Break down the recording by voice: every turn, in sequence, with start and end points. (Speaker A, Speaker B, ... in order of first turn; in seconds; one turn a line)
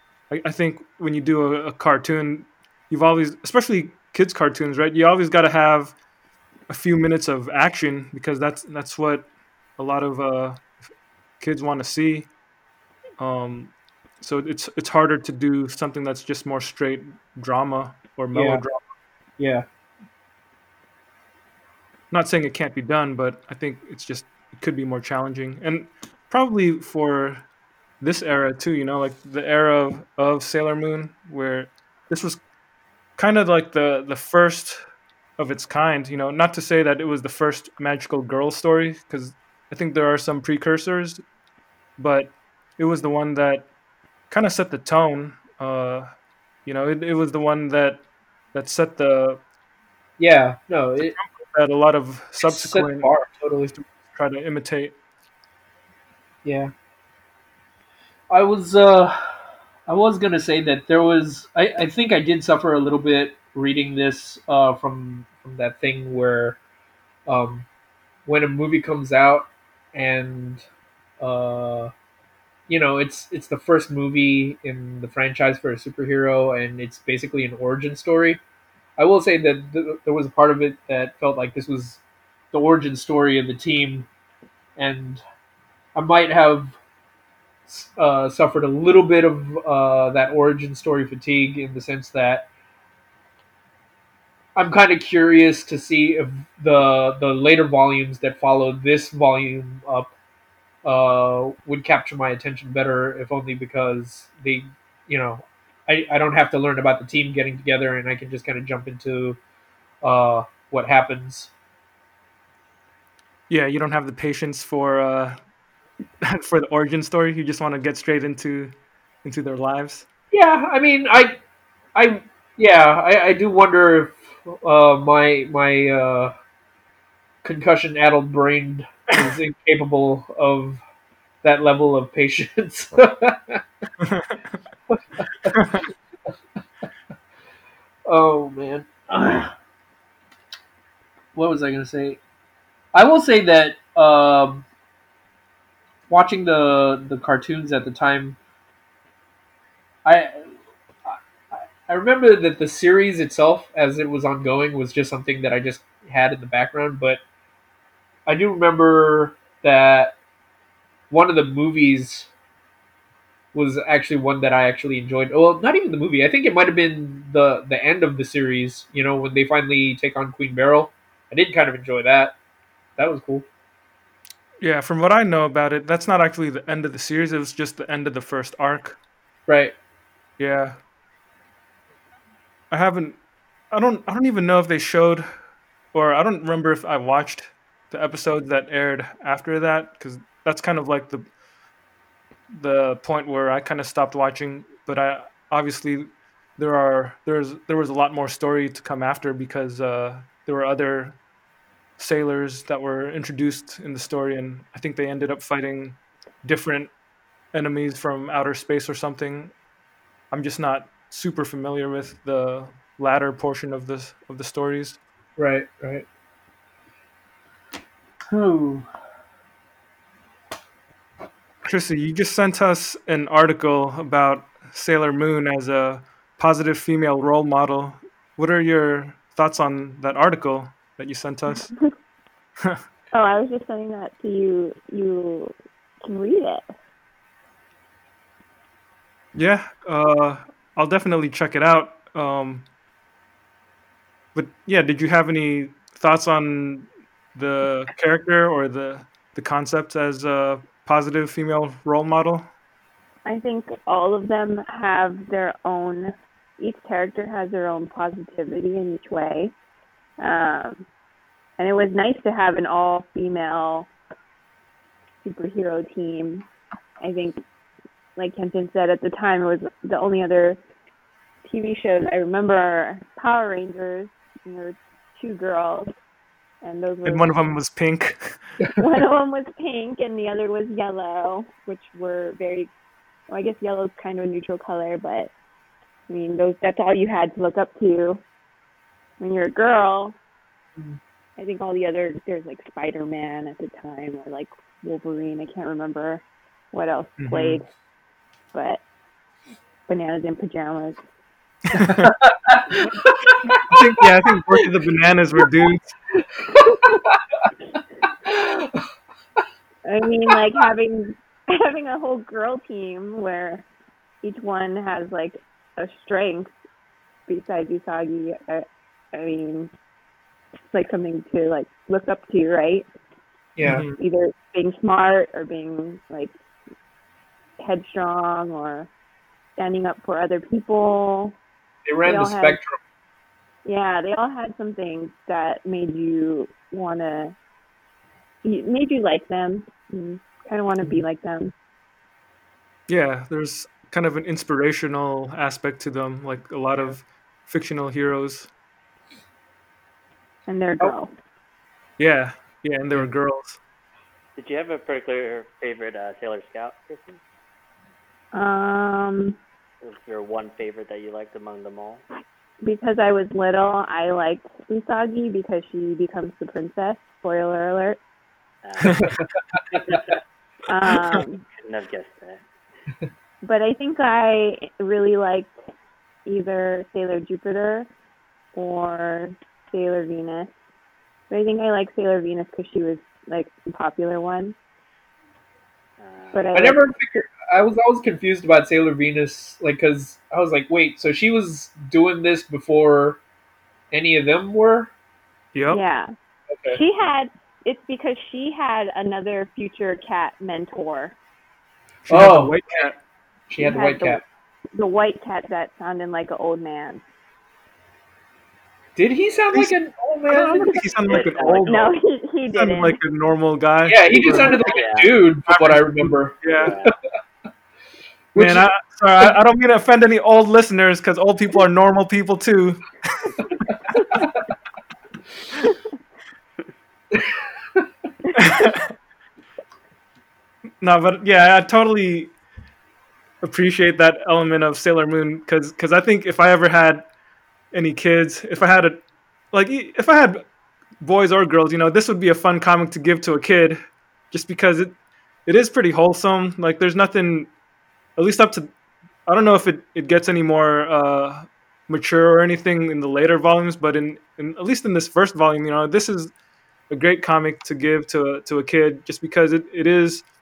Speaker A: 0.3-5.9
Speaker A: 6.7-9.3
Speaker A: 9.8-10.6
Speaker A: 11.4-12.3
Speaker A: 13.2-18.8
Speaker B: 18.3-18.6
Speaker B: 19.4-19.6
Speaker A: 22.1-27.4
Speaker A: 28.0-32.4
Speaker A: 33.2-34.8
Speaker A: 35.4-41.2
Speaker A: 42.0-43.7
Speaker A: 44.3-46.1
Speaker A: 46.6-48.0
Speaker A: 48.5-49.4
Speaker B: 50.2-51.1
Speaker A: 51.1-53.1
Speaker B: 52.4-53.7
Speaker A: 53.7-54.9
Speaker B: 56.4-56.7
Speaker B: 58.3-59.3
Speaker B: 59.9-66.6
Speaker B: 67.3-67.7
Speaker B: 68.2-70.6
Speaker B: 71.2-71.9
Speaker B: 72.7-78.4
Speaker B: 79.0-84.1
Speaker B: 84.8-85.2
Speaker B: 85.9-86.8
Speaker B: 87.7-92.5
Speaker B: 94.5-100.1
Speaker B: 100.8-109.4
Speaker B: 110.0-111.5
Speaker A: 113.5-115.4
Speaker A: 116.2-118.7
Speaker A: 119.2-120.1
Speaker B: 120.3-121.4
Speaker B: 121.9-126.3
Speaker B: 127.4-130.8
Speaker B: 131.4-133.8
Speaker A: 134.0-134.4
Speaker B: 134.9-135.8
Speaker A: 135.5-135.8
Speaker B: 138.1-139.5
Speaker B: 141.3-142.2
Speaker B: 142.9-144.7
Speaker B: 146.1-148.4
Speaker B: 150.0-150.4
Speaker B: 151.1-157.2
Speaker B: 158.3-160.2
Speaker B: 161.1-162.3
Speaker B: 163.5-172.3
Speaker B: 173.0-173.4
Speaker A: 174.6-179.0
Speaker B: 179.5-179.7
Speaker A: 180.4-180.8
Speaker A: 182.7-183.2
Speaker A: 183.7-185.3
Speaker A: 185.9-191.2
Speaker A: 192.5-201.2
Speaker A: 202.0-206.9
Speaker A: 207.5-209.5
Speaker A: 210.3-215.0
Speaker B: 215.4-216.1
Speaker B: 218.3-218.9
Speaker A: 221.6-231.7
Speaker C: 233.1-236.7
Speaker A: 239.3-242.6
Speaker A: 244.3-252.5
Speaker C: 253.2-259.5
Speaker C: 260.2-260.8
Speaker C: 261.6-263.9
Speaker C: 265.2-266.4
Speaker C: 267.0-267.4
Speaker C: 268.1-270.6
Speaker C: 271.4-275.9
Speaker C: 276.6-277.3
Speaker A: 277.0-278.4
Speaker C: 278.8-282.7
Speaker C: 283.3-285.3
Speaker C: 286.1-288.2
Speaker C: 289.2-290.1
Speaker C: 291.4-297.7
Speaker A: 297.2-297.6
Speaker C: 298.5-298.8
Speaker C: 299.9-301.0
Speaker A: 301.7-302.1
Speaker B: 301.9-303.7
Speaker A: 303.7-305.9
Speaker B: 306.1-307.4
Speaker B: 308.2-308.8
Speaker C: 309.9-313.6
Speaker C: 314.2-316.5
Speaker C: 317.3-319.7
Speaker C: 320.7-322.9
Speaker B: 323.6-323.8
Speaker A: 323.6-324.0
Speaker C: 323.9-326.3
Speaker C: 327.6-328.9
Speaker C: 329.6-331.4
Speaker B: 331.8-332.8
Speaker C: 332.0-332.6
Speaker C: 333.6-337.3
Speaker C: 338.4-341.5
Speaker A: 342.9-348.5
Speaker C: 350.5-351.1
Speaker A: 352.0-353.6
Speaker D: 354.4-357.2
Speaker C: 358.3-359.4
Speaker D: 359.8-362.0
Speaker C: 362.6-368.0
Speaker D: 368.6-369.1
Speaker A: 368.8-369.1
Speaker B: 369.0-370.0
Speaker D: 369.7-370.1
Speaker C: 370.7-371.4
Speaker D: 371.6-372.4
Speaker C: 373.4-375.5
Speaker C: 376.2-377.9
Speaker C: 378.5-380.5
Speaker C: 381.3-384.5
Speaker D: 386.0-386.5
Speaker C: 386.3-386.8
Speaker B: 386.5-393.2
Speaker B: 393.9-394.9
Speaker A: 395.5-395.8
Speaker C: 395.7-396.1
Speaker B: 396.5-396.8
Speaker C: 396.7-401.1
Speaker A: 402.0-403.0
Speaker B: 402.1-402.9
Speaker B: 403.5-404.2
Speaker C: 403.6-404.2
Speaker C: 404.7-407.0
Speaker B: 408.9-410.8
Speaker A: 410.2-411.9
Speaker D: 411.0-411.8
Speaker C: 411.6-413.0
Speaker A: 412.5-414.6
Speaker B: 413.9-416.4
Speaker D: 414.6-415.2
Speaker A: 415.5-416.7
Speaker D: 416.6-416.9
Speaker B: 418.3-418.7
Speaker A: 418.3-423.4
Speaker B: 423.9-424.4
Speaker B: 427.1-427.8
Speaker A: 428.3-428.9
Speaker A: 430.8-432.3
Speaker A: 433.4-437.1
Speaker A: 437.7-440.4
Speaker A: 441.0-443.8
Speaker A: 444.3-444.9
Speaker A: 445.4-447.5
Speaker A: 448.2-448.7
Speaker A: 449.2-456.3
Speaker A: 456.9-460.2